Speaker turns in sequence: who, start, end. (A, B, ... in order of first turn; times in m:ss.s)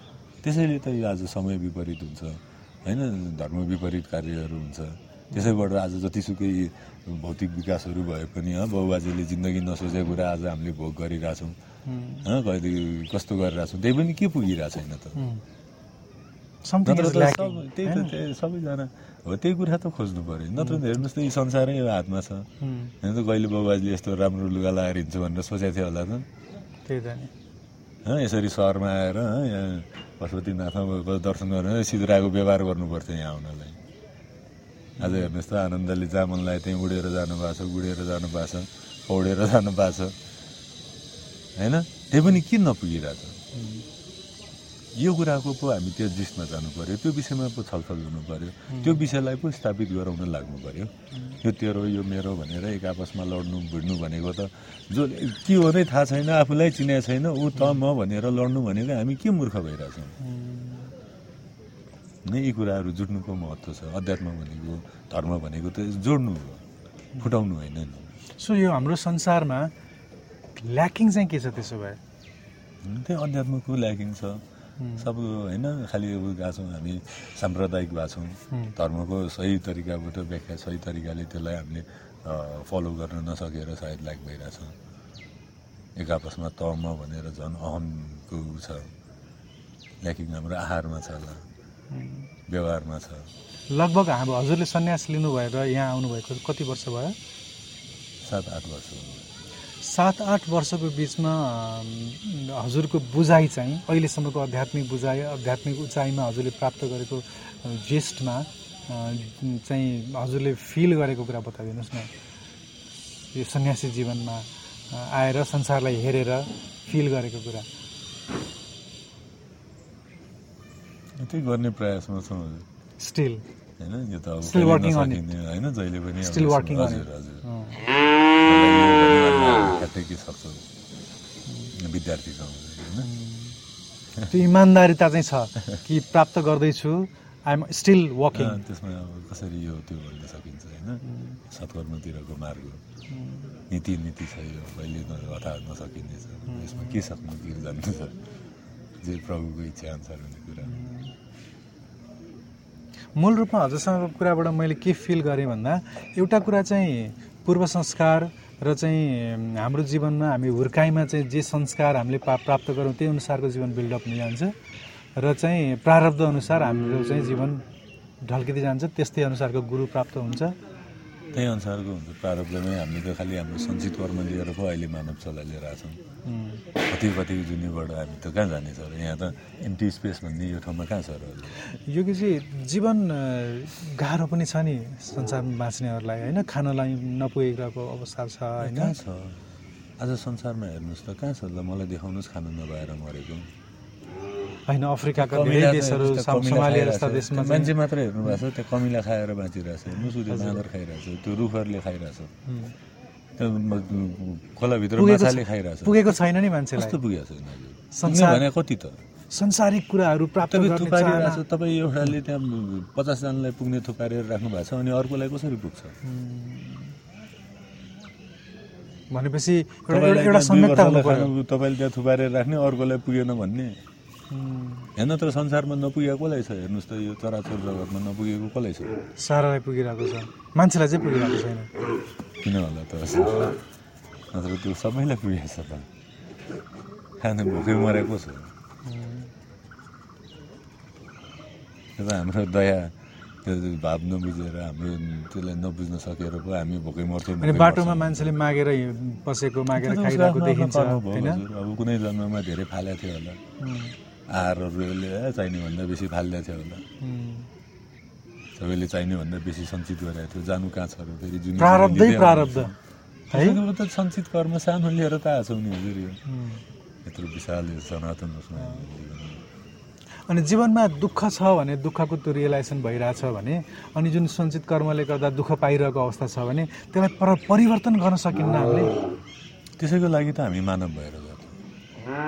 0:00.4-0:11.6 A
0:05.3-0:05.6 B
0:11.9-0:12.3 B
0:12.2-0:15.2 A
0:15.2-0:15.4 B
0:16.6-0:18.2 B
0:16.8-0:22.5 A
0:20.6-0:20.8 B
0:22.6-0:22.9 B
0:23.0-0:26.3 A
0:26.9-0:27.3 B
0:28.0-0:33.8 A
0:35.0-0:35.3 B
0:35.0-0:40.2 A
0:41.6-0:43.4 A
0:43.5-0:43.8 B
0:45.0-1:00.2 A
0:48.7-0:49.1 B
0:51.1-0:51.4 B
1:00.2-1:00.9 B
1:02.2-1:06.6 A
1:07.2-1:08.1 A
1:08.4-1:09.7 B
1:10.6-1:12.0 B
1:12.8-1:14.4 A
1:14.8-1:15.1 B
1:15.0-1:24.8 A
1:26.0-1:28.9 A
1:30.0-1:31.4 A
1:31.9-1:32.3 B
1:32.5-1:33.3 A
1:33.7-1:37.2 B
1:38.2-1:39.3 A
1:39.8-1:52.1 B
1:53.3-1:57.7 B
2:01.2-2:02.7 A
2:03.0-2:03.4 B
2:03.8-2:07.4 A
2:04.4-2:05.3 B
2:06.2-2:07.8 B
2:08.4-2:10.6 A
2:11.7-2:13.1 A
2:13.0-2:13.6 B
2:14.3-2:18.6 B
2:18.3-2:22.8 A
2:21.0-2:21.4 B
2:23.1-2:23.6 B
2:23.7-2:28.2 A
2:26.5-2:27.0 B
2:29.0-2:30.9 A
2:30.6-2:31.1 B
2:33.2-2:44.6 B
2:45.2-2:47.6 B
2:48.2-2:50.6 B
2:51.3-2:56.0 A
2:56.2-2:56.6 B
2:56.9-3:01.6 A
3:01.7-3:08.9 B
3:08.6-3:09.4 A
3:10.0-3:13.5 A
3:14.7-3:17.7 B
3:15.1-3:22.3 A
3:20.2-3:20.6 B
3:22.5-3:22.7 B
3:23.4-3:26.1 A
3:25.0-3:27.0 B
3:26.8-3:29.0 A
3:27.9-3:28.5 B
3:29.3-3:31.4 B
3:30.4-3:36.0 A
3:36.0-3:37.0 B
3:39.1-3:41.3 B
3:39.9-3:43.8 A
3:44.3-3:44.9 B
3:45.0-3:49.0 A
3:49.2-3:51.7 B
3:52.4-3:53.6 A
3:54.3-3:55.9 A
3:57.2-3:58.5 A
3:58.8-3:59.3 B
4:02.0-4:08.4 A
4:07.4-4:11.4 B
4:09.8-4:13.4 A
4:13.6-4:14.0 B
4:14.3-4:16.8 A
4:17.0-4:17.5 B
4:18.6-4:22.7 A
4:21.6-4:22.7 B
4:23.3-4:23.6 B
4:23.3-4:26.2 A
4:26.3-4:26.6 B
4:27.0-4:29.4 A
4:30.3-4:39.0 B
4:39.8-4:41.6 A